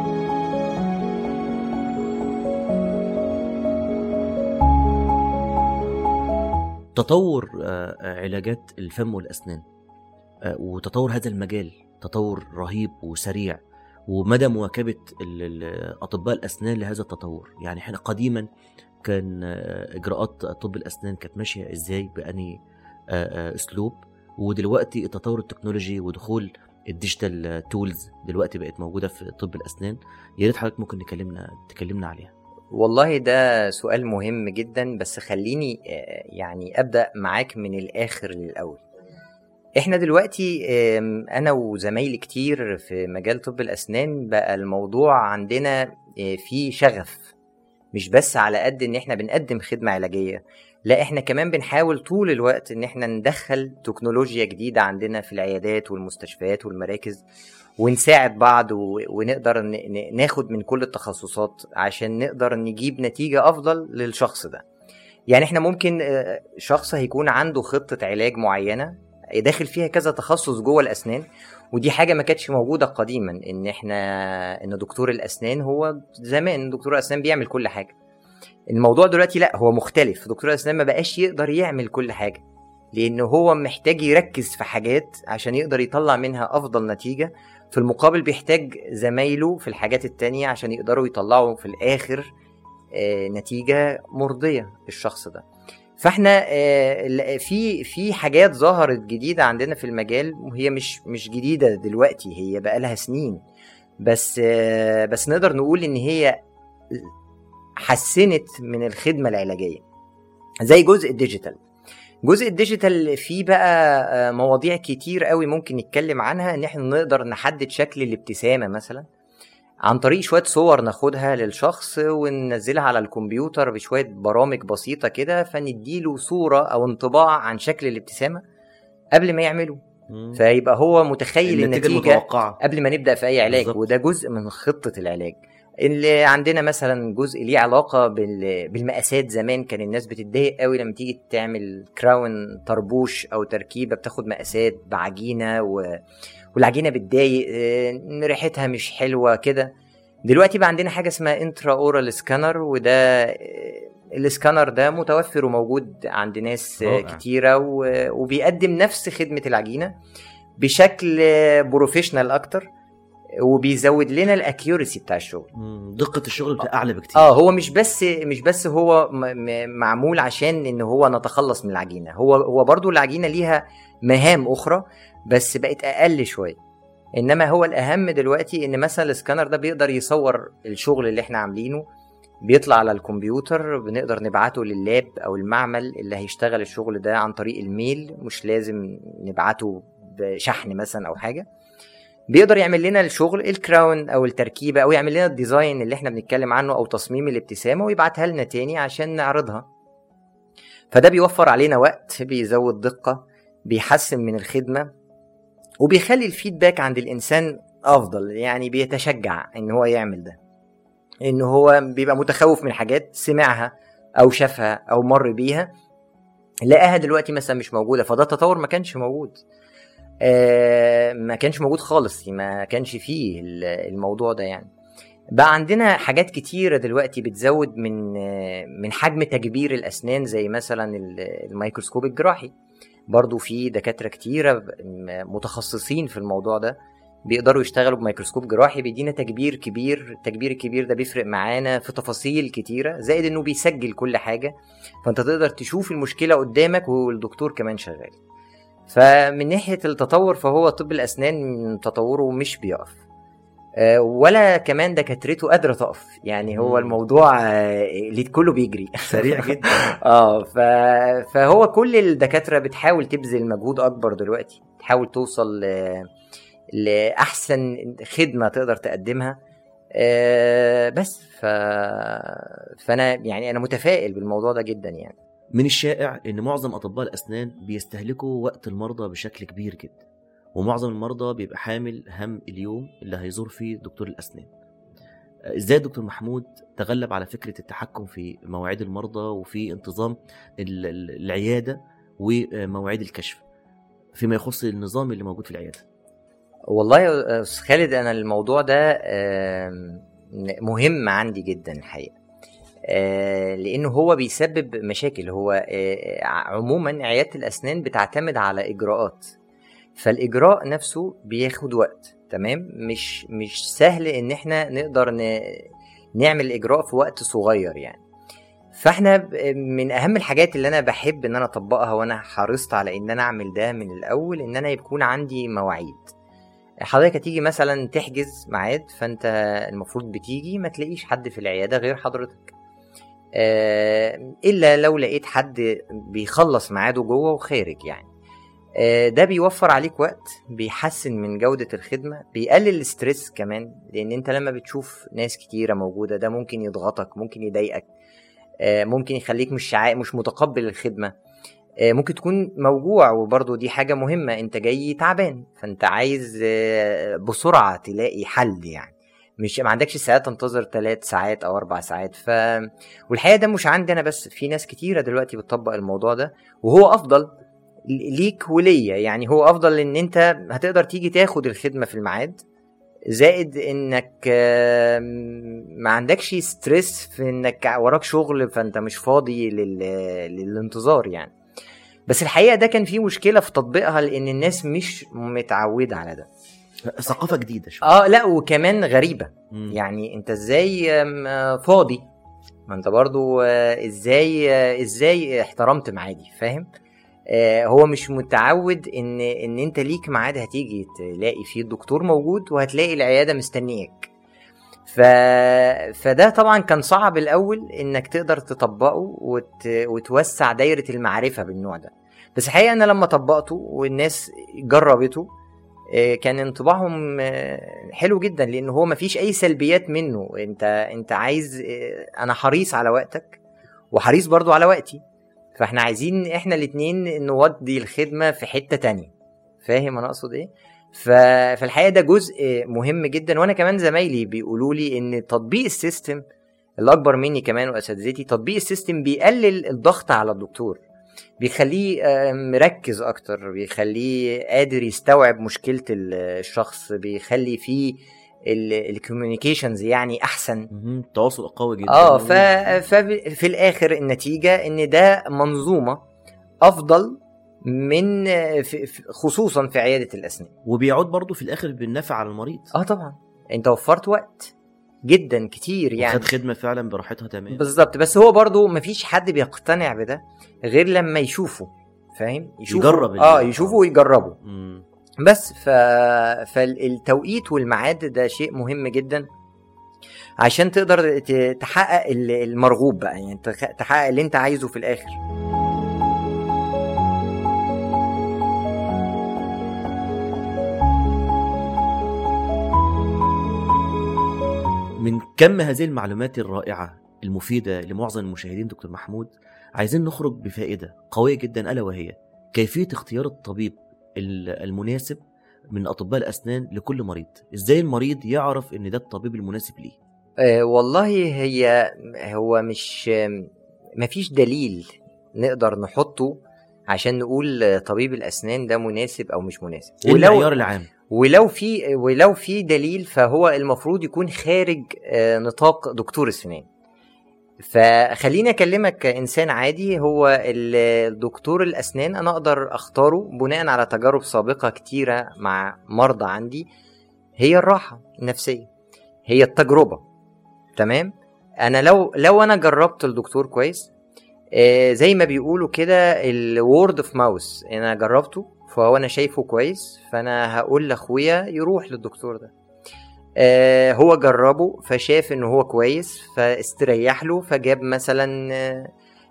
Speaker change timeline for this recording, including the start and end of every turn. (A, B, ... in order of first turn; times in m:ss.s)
0:06.9-0:09.6 A
0:10.4-0:18.4 A
0:19.0-0:22.6 A
0:23.1-0:32.3 A
0:32.7-0:38.8 B
0:39.8-0:47.3 B
0:47.9-0:57.2 B
0:57.8-1:04.6 B
1:05.3-1:17.9 B
1:18.7-1:22.4 B
1:22.9-1:32.3 B
1:32.9-1:35.4 B
1:36.0-1:43.4 B
1:44.0-1:46.4 B
1:47.8-1:49.8 B
1:50.6-1:51.6 B
1:52.2-1:59.0 B
1:59.8-2:08.4 B
2:09.1-2:09.8 B
2:10.1-2:10.4 A
2:10.3-2:26.0 B
2:11.4-2:12.6 A
2:13.5-2:13.8 A
2:26.5-2:29.7 B
2:30.3-2:39.9 B
2:36.8-2:37.2 A
2:40.6-2:42.7 B
2:43.4-2:45.5 B
2:45.5-2:47.4 A
2:47.1-2:56.6 B
2:57.2-3:01.8 B
3:02.4-3:11.4 B
3:12.3-3:19.7 B
3:20.9-3:24.9 B
3:25.8-3:30.4 B
3:31.2-3:35.7 B
3:36.6-3:39.4 B
3:40.2-3:44.7 B
3:45.4-3:52.5 B
3:53.1-4:04.5 B
4:05.0-4:08.2 B
4:08.9-4:13.0 B
4:13.8-4:26.1 B
4:16.5-4:16.9 A
4:19.1-4:19.8 A
4:26.7-4:29.4 B
4:29.9-4:35.2 B
4:35.5-4:40.0 A
4:40.5-4:44.5 A
4:45.6-4:53.4 A
4:54.1-4:55.8 A
4:56.7-5:02.1 B
5:02.9-5:09.3 B
5:10.0-5:18.0 B
5:18.7-5:26.1 B
5:26.9-5:32.5 B
5:33.4-5:38.1 B
5:38.8-5:47.8 B
5:48.6-5:51.1 B
5:51.8-6:07.3 B
6:07.9-6:12.4 B
6:13.1-6:21.3 B
6:22.1-6:26.3 B
6:26.8-6:27.8 A
6:27.8-6:32.0 B
6:29.5-6:29.8 A
6:32.7-6:36.7 B
6:37.3-6:44.1 B
6:44.9-6:55.3 B
6:55.9-7:03.4 B
7:03.9-7:05.0 B
7:05.6-7:09.1 B
7:09.6-7:16.2 B
7:16.8-7:20.8 B
7:21.4-7:30.7 B
7:30.7-7:32.7 A
7:31.9-7:36.0 B
7:36.6-7:40.5 B
7:40.6-7:42.7 A
7:42.7-7:44.5 B
7:45.1-7:46.3 B
7:46.0-7:47.7 A
7:47.5-7:54.4 B
7:52.7-7:53.8 A
7:54.4-7:54.8 A
7:55.2-7:59.3 B
8:00.4-8:05.2 B
8:15.0-8:25.2 A
8:25.7-8:30.0 A
8:30.4-8:36.4 B
8:36.9-8:40.5 B
8:40.0-8:40.9 A
8:41.1-8:46.7 B
8:47.6-8:56.7 B
8:57.4-8:58.7 B
8:59.3-9:00.0 B
9:00.8-9:03.9 B
9:04.5-9:12.5 B
9:13.4-9:18.9 B